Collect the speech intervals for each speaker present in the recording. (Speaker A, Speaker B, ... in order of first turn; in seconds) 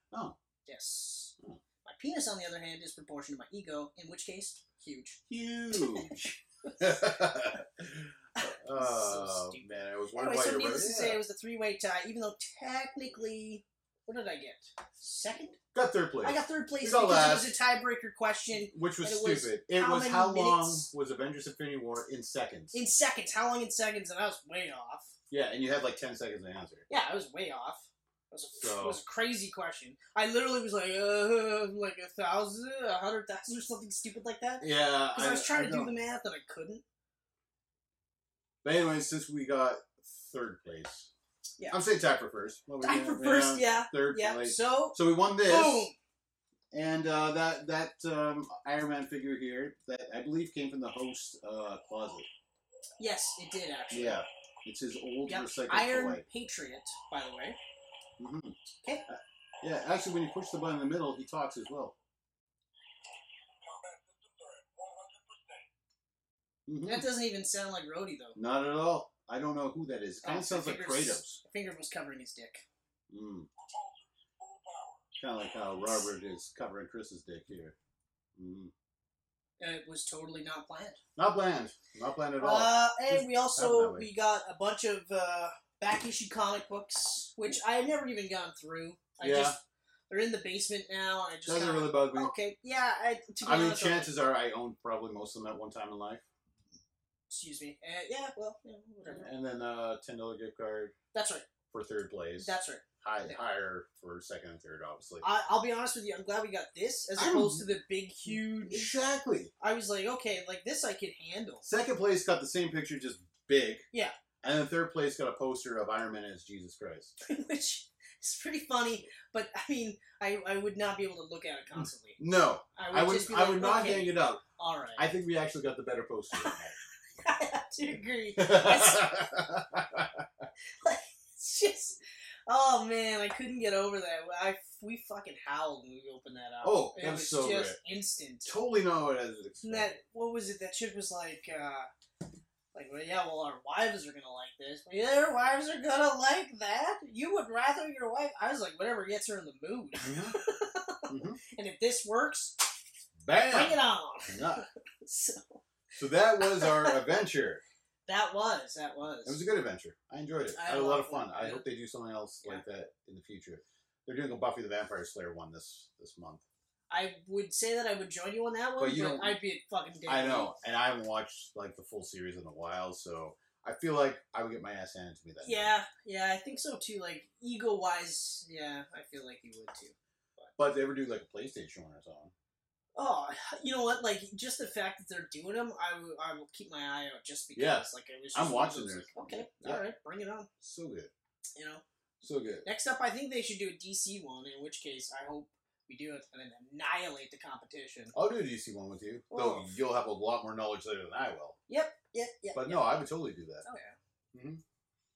Speaker A: 0.1-0.3, 5.3-11.2, 15.7-17.5, 18.5-22.7, 25.3-26.8, 28.6-29.0, 34.6-35.9, 38.6-41.1, 41.7-45.9, 46.7-52.3, 53.9-56.2, 58.2-58.5, 59.1-61.9, 66.7-67.1, 68.3-71.4, 73.1-73.5, 75.2-77.7, 78.4-78.7, 81.2-84.1, 89.2-89.5, 91.5-92.3, 93.4-96.2, 99.1-100.9, 101.7-105.2, 107.2-107.7, 108.2-109.5, 111.6-113.8, 114.4-117.1, 121.7-124.4, 125.0-126.8, 128.4-130.4, 136.6-137.8, 138.4-139.9, 150.0-150.3, 151.1-151.4, 153.2-154.6, 155.9-157.6, 159.2-166.4, 168.8-169.4, 170.1-175.7, 180.6-182.3, 187.5-189.8, 190.6-191.1, 192.2-192.7, 198.1-201.6, 202.5-203.6, 204.3-204.6
Speaker B: 0.7-5.2, 5.7-6.1, 8.4-15.6, 16.2-20.9, 22.7-25.1, 26.9-36.8, 42.8-45.9, 53.0-54.2, 55.3-57.6, 66.8-68.4, 70.2-72.6, 79.6-81.0, 82.4-94.1, 97.3-99.3, 101.1-101.5, 102.4-103.4, 105.2-108.9, 109.6-111.7, 117.2-122.2, 122.7-125.1, 127.2-129.2, 130.8-138.5, 139.6-141.9, 142.7-152.6, 153.5-155.6, 156.4-157.0, 158.1-159.4, 160.5-161.6, 166.9-170.5, 175.4-180.5, 182.9-190.5, 191.6-191.8, 192.6-198.1, 199.3-199.7, 201.7-203.0, 203.6-203.9